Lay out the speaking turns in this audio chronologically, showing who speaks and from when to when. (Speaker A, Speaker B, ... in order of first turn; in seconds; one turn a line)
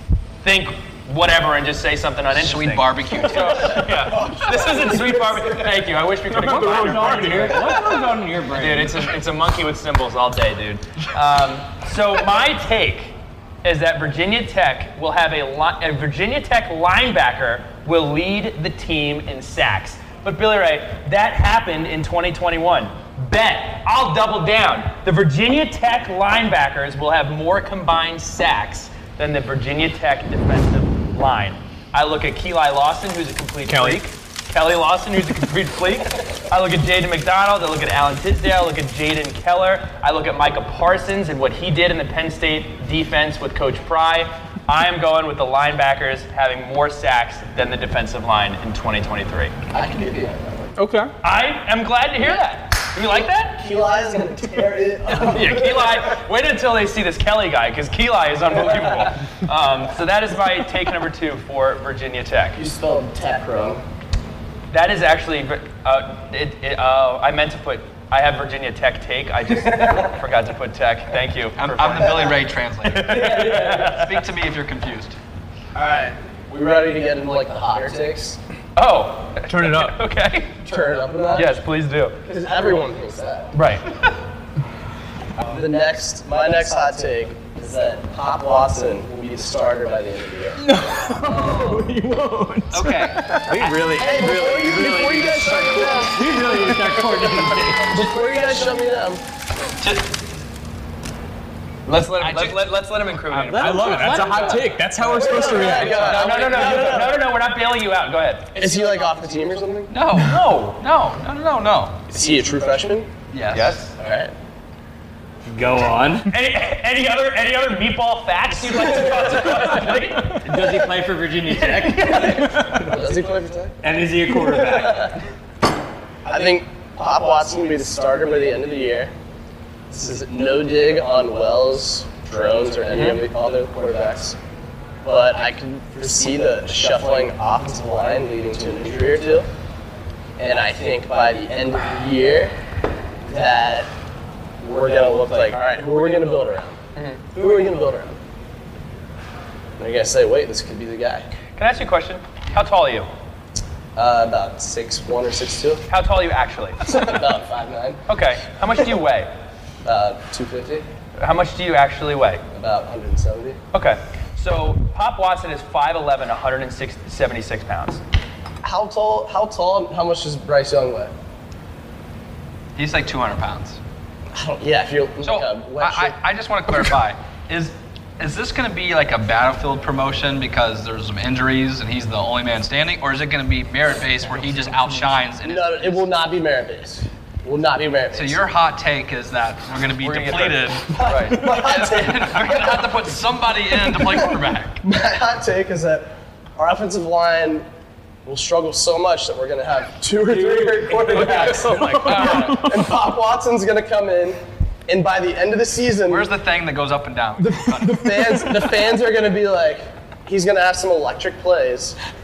Speaker A: 0.4-7.7
Speaker B: 2.3-4.0
Speaker C: 4.1-5.8
Speaker D: 6.3-7.7
Speaker E: 6.3-9.0
Speaker A: 8.5-49.5
Speaker D: 33.7-34.0
Speaker C: 49.7-50.7
Speaker D: 50.8-51.1
Speaker A: 51.2-53.6
Speaker C: 53.6-55.9
Speaker A: 55.1-62.6
Speaker C: 62.5-63.8
Speaker A: 64.7-74.2
Speaker B: 71.5-75.2
Speaker C: 73.3-73.7
Speaker C: 75.7-78.4
Speaker A: 78.7-80.6
Speaker D: 79.5-80.0
Speaker C: 80.6-81.6
Speaker A: 81.3-82.2
Speaker C: 82.2-83.5
Speaker A: 83.5-83.9
Speaker C: 85.4-90.6
Speaker D: 90.6-93.7
Speaker C: 91.2-91.8
Speaker A: 92.7-95.1
Speaker E: 93.5-98.1
Speaker C: 94.0-96.3
Speaker D: 96.5-96.9
Speaker C: 97.8-99.2
Speaker B: 99.8-100.0
Speaker A: 101.8-108.8
Speaker B: 102.2-102.7
Speaker B: 103.3-104.4
Speaker E: 103.5-104.6
Speaker D: 103.5-106.2
Speaker C: 105.0-107.3
Speaker B: 105.8-106.5
Speaker C: 108.5-110.0
Speaker B: 109.9-112.0
Speaker A: 110.2-110.8
Speaker C: 112.1-113.1
Speaker B: 113.3-113.8
Speaker A: 113.5-113.9
Speaker C: 114.0-114.3
Speaker E: 115.5-116.3
Speaker A: 116.3-120.4
Speaker E: 120.4-122.8
Speaker C: 122.0-123.8
Speaker A: 122.0-122.3
Speaker E: 123.8-125.2
Speaker C: 124.4-125.2
Speaker C: 126.2-129.1
Speaker C: 129.9-134.3
Speaker A: 132.9-133.2
Speaker C: 135.0-139.5
Speaker C: 140.4-142.5
Speaker C: 143.2-143.9
Speaker C: 144.6-146.8
Speaker A: 146.9-147.2
Speaker C: 147.3-148.2
Speaker C: 149.8-151.3
Speaker A: 151.5-153.1
Speaker C: 153.9-155.8
Speaker A: 155.9-157.0
Speaker C: 156.8-158.0
Speaker A: 158.1-159.3
Speaker C: 159.8-160.9
Speaker A: 161.2-162.4
Speaker C: 162.5-163.6
Speaker A: 163.7-168.0
Speaker C: 168.6-171.1
Speaker B: 172.8-173.8
Speaker C: 174.3-176.2
Speaker B: 175.2-186.1
Speaker C: 185.4-188.4
Speaker B: 188.1-194.8
Speaker A: 190.0-191.4
Speaker C: 190.9-192.9
Speaker C: 193.8-197.6
Speaker C: 198.2-206.3
Speaker E: 200.3-201.5
Speaker A: 201.2-202.5
Speaker D: 201.4-202.8
Speaker B: 201.8-202.7
Speaker B: 206.1-208.2
Speaker C: 207.4-212.0
Speaker D: 208.2-208.4